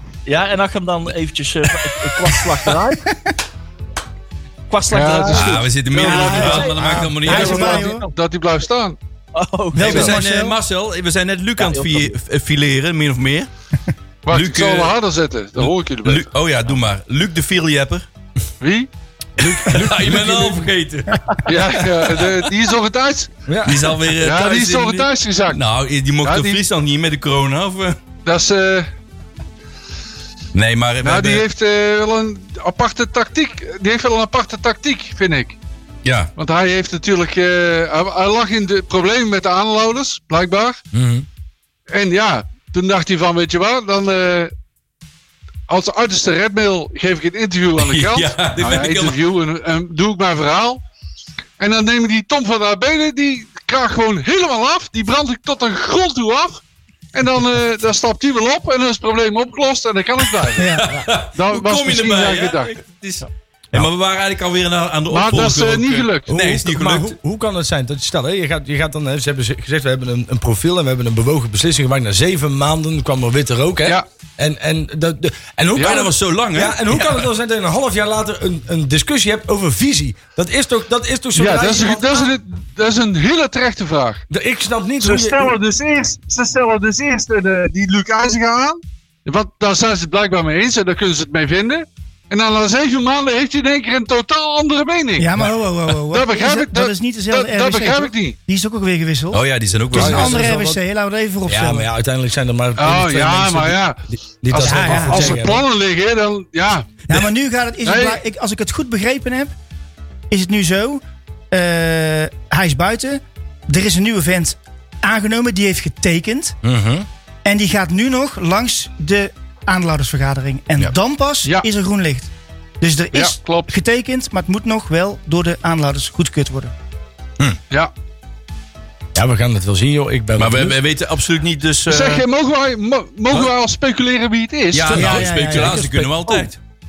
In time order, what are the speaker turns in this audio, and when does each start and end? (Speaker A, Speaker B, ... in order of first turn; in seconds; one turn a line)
Speaker A: 0.3-3.2
Speaker A: 4.7-8.1
Speaker B: 4.9-6.8
Speaker C: 5.3-7.6
Speaker D: 6.1-6.7
Speaker E: 6.8-7.8
Speaker D: 7.3-8.1
Speaker B: 7.3-9.0
Speaker A: 9.3-10.1
Speaker D: 9.8-10.6
Speaker C: 9.8-13.5
Speaker E: 9.8-10.2
Speaker A: 11.6-12.1
Speaker B: 14.3-16.3
Speaker C: 14.3-14.9
Speaker C: 15.6-18.1
Speaker B: 18.6-18.9
Speaker E: 19.4-20.7
Speaker C: 19.4-22.4
Speaker B: 21.5-23.3
Speaker E: 23.5-23.9
Speaker C: 23.6-28.0
Speaker B: 24.1-25.6
Speaker B: 26.2-26.6
Speaker B: 28.2-28.9
Speaker C: 30.5-31.4
Speaker B: 31.0-35.6
Speaker C: 36.0-36.3
Speaker B: 36.4-40.8
Speaker E: 40.9-41.2
Speaker B: 41.9-44.5
Speaker B: 45.7-50.8
Speaker C: 47.8-49.2
Speaker B: 51.6-56.6
Speaker B: 57.1-60.8
Speaker D: 60.6-60.8
Speaker C: 60.8-67.2
Speaker B: 61.4-62.8
Speaker B: 65.1-66.3
Speaker E: 66.3-82.3
Speaker C: 75.8-77.2
Speaker B: 75.8-76.1
Speaker B: 81.4-84.2
Speaker E: 84.3-85.6
Speaker B: 85.0-95.3
Speaker D: 95.2-99.4
Speaker B: 96.1-98.4
Speaker C: 99.3-100.4
Speaker E: 99.9-100.8
Speaker D: 99.9-101.9
Speaker E: 101.5-105.7
Speaker B: 102.8-107.0
Speaker D: 104.6-105.4
Speaker D: 107.1-109.5
Speaker B: 107.8-108.2
Speaker D: 110.3-116.6
Speaker E: 116.6-117.1
Speaker D: 117.5-126.7
Speaker B: 123.1-123.7
Speaker E: 129.2-130.8
Speaker C: 130.4-132.2
Speaker B: 131.9-135.2
Speaker C: 134.7-136.6
Speaker D: 134.9-136.5